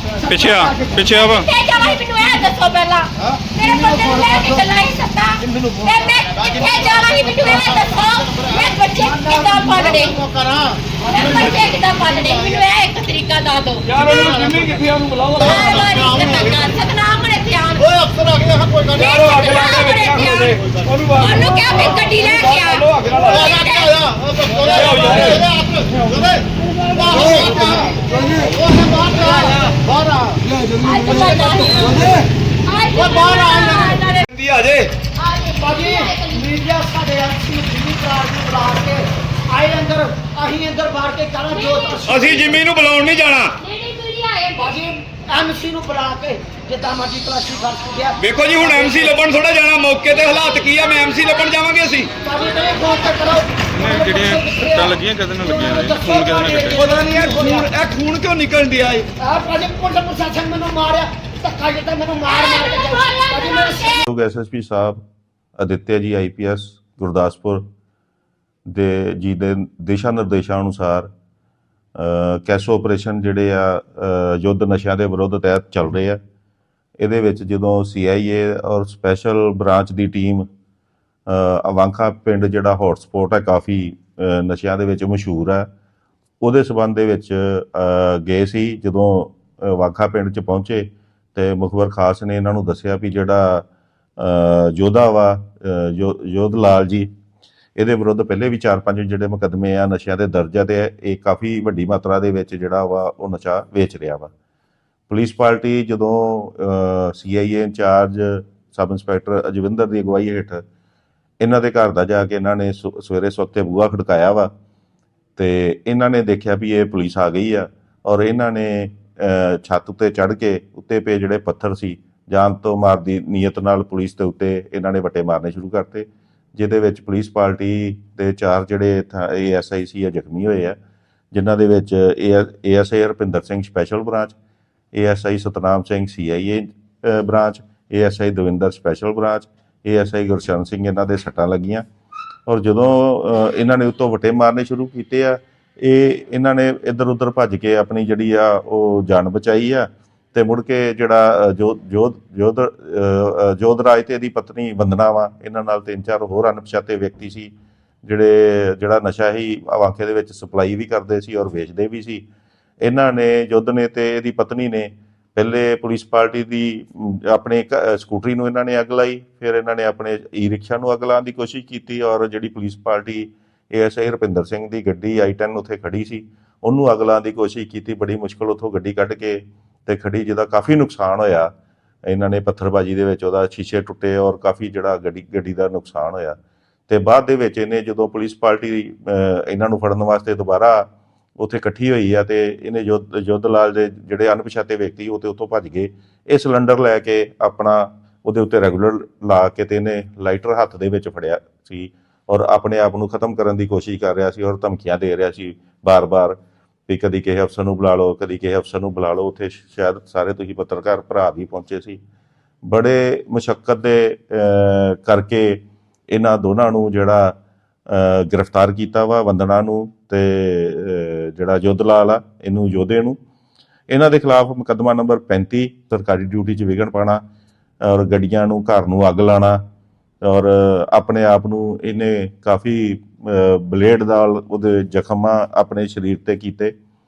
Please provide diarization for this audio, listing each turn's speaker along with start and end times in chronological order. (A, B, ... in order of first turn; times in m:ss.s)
0:00.3-0:01.5 A
0:00.5-0:00.9 B
0:01.2-0:10.2 C
0:09.8-0:10.1 B
0:11.0-0:14.4 C
0:13.9-0:15.6 D
0:15.4-0:25.0 C
0:18.9-0:23.6 D
0:24.4-0:26.3 D
0:26.9-0:28.1 C
0:27.3-0:28.4 D
0:28.5-0:29.4 B
0:29.1-0:29.6 D
0:30.7-0:34.2 C
0:34.2-0:34.9 D
0:35.2-0:36.5 C
0:35.6-0:42.5 B
0:41.5-0:42.1 C
0:42.0-0:43.6 D
0:43.6-0:44.8 C
0:44.6-0:48.1 B
0:48.2-0:52.1 D
0:50.3-0:51.6 C
0:52.2-0:57.5 B
0:52.3-0:53.1 C
0:53.7-0:56.8 A
0:56.7-0:59.1 D
0:59.2-1:04.0 B
1:02.3-1:04.1 C
1:04.1-1:05.0 E
1:05.6-1:07.6 E
1:08.7-1:11.1 E
1:12.0-1:16.2 E
1:17.0-1:20.5 E
1:21.3-1:25.7 E
1:26.4-1:33.6 E
1:34.2-1:37.1 E
1:37.8-1:44.3 E
1:45.1-1:50.6 E
1:51.4-1:54.5 E
1:55.4-2:10.8 E
2:11.3-2:14.4 E
2:14.9-2:21.8 E
2:22.4-2:37.5 E
2:38.0-2:42.2 E
2:42.8-3:01.5 E
3:02.1-3:06.4 E
3:06.9-3:32.0 E
3:32.6-3:37.4 E
3:37.9-3:43.2 E
3:43.9-3:47.2 E
3:47.8-3:49.6 E
3:50.2-3:56.7 E